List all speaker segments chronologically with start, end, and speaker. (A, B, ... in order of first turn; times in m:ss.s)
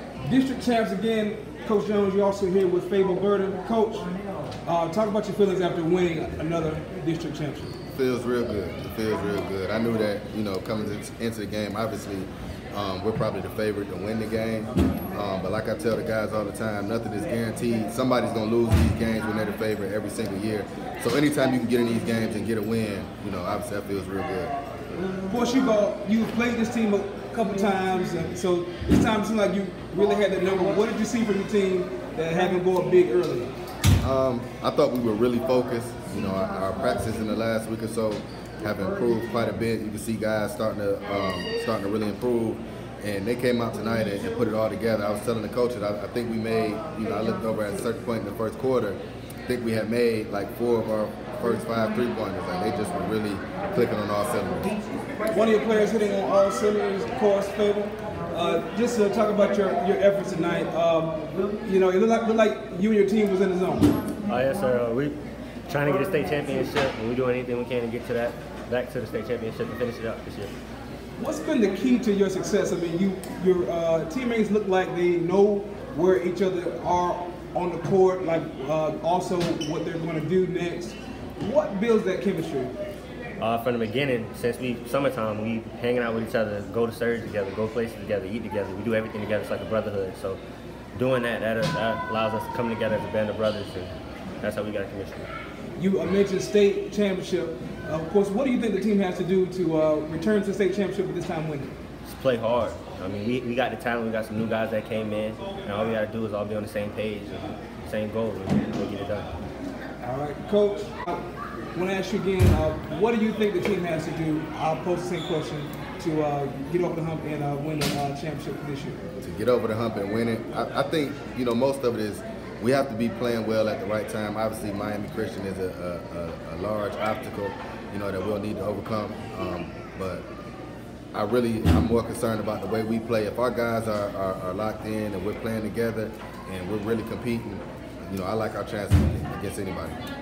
0:00.2-0:04.1 A
0:04.6-0:07.8 A
0:08.0-0:24.5 B
0:25.2-0:33.5 A
0:34.0-0:54.7 B
0:55.3-1:03.9 A
1:04.3-1:10.5 C
1:11.2-1:22.7 A
1:23.4-1:30.4 C
1:30.9-1:35.3 C
1:35.8-1:41.7 A
1:42.0-1:49.3 C
1:50.0-1:59.0 A
1:59.2-2:10.2 B
2:11.1-2:20.0 B